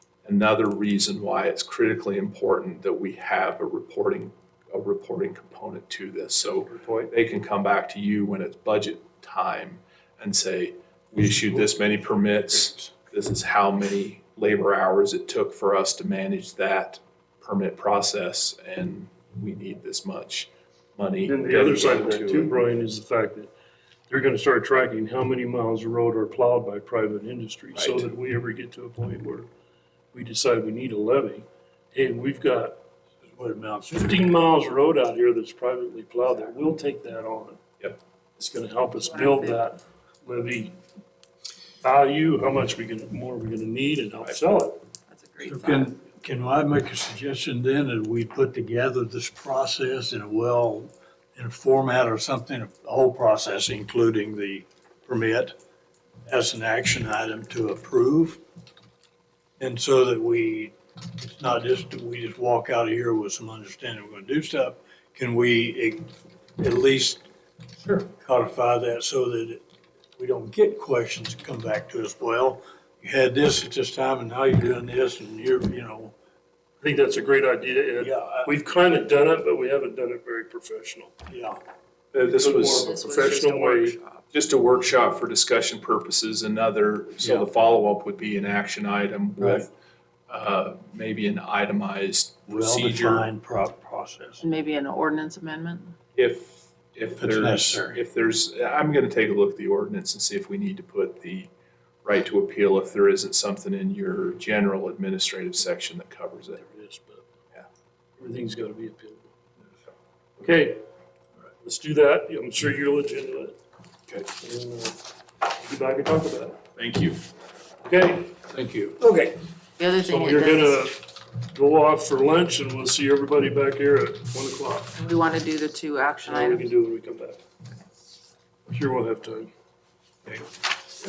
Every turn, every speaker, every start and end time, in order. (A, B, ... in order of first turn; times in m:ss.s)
0:00.2-0:22.6 A
0:06.6-0:07.1 B
0:21.3-0:23.5 B
0:24.1-0:29.5 B
0:27.8-0:28.1 A
0:30.1-0:32.8 B
0:33.2-0:34.2 C
0:33.9-0:37.6 B
0:38.4-0:40.8 B
0:39.0-0:39.6 D
0:41.8-0:44.8 B
0:45.1-0:45.9 D
0:45.4-0:55.6 C
0:56.3-0:58.4 C
0:59.6-1:07.2 C
1:08.0-1:09.6 C
1:10.2-1:16.2 C
1:16.8-1:21.1 B
1:18.0-1:18.5 C
1:21.3-1:21.6 C
1:22.1-1:23.0 A
1:22.4-1:24.0 B
1:22.6-1:24.3 D
1:24.3-1:29.7 A
1:27.2-1:27.5 C
1:29.4-1:29.7 C
1:30.3-1:33.3 A
1:32.5-1:34.4 C
1:34.4-1:36.0 D
1:36.2-1:41.5 A
1:37.2-1:38.0 C
1:42.0-1:46.6 A
1:46.6-1:47.3 B
1:48.2-1:49.3 B
1:50.4-1:50.8 B
1:51.6-1:53.6 B
1:54.4-1:56.6 B
1:56.8-1:57.2 A
1:57.8-1:58.4 B
1:58.5-1:59.0 A
1:59.0-1:59.4 B
1:59.8-2:00.9 D
2:00.0-2:05.0 B
2:05.0-2:06.7 D
2:06.2-2:07.4 B
2:08.7-2:09.5 B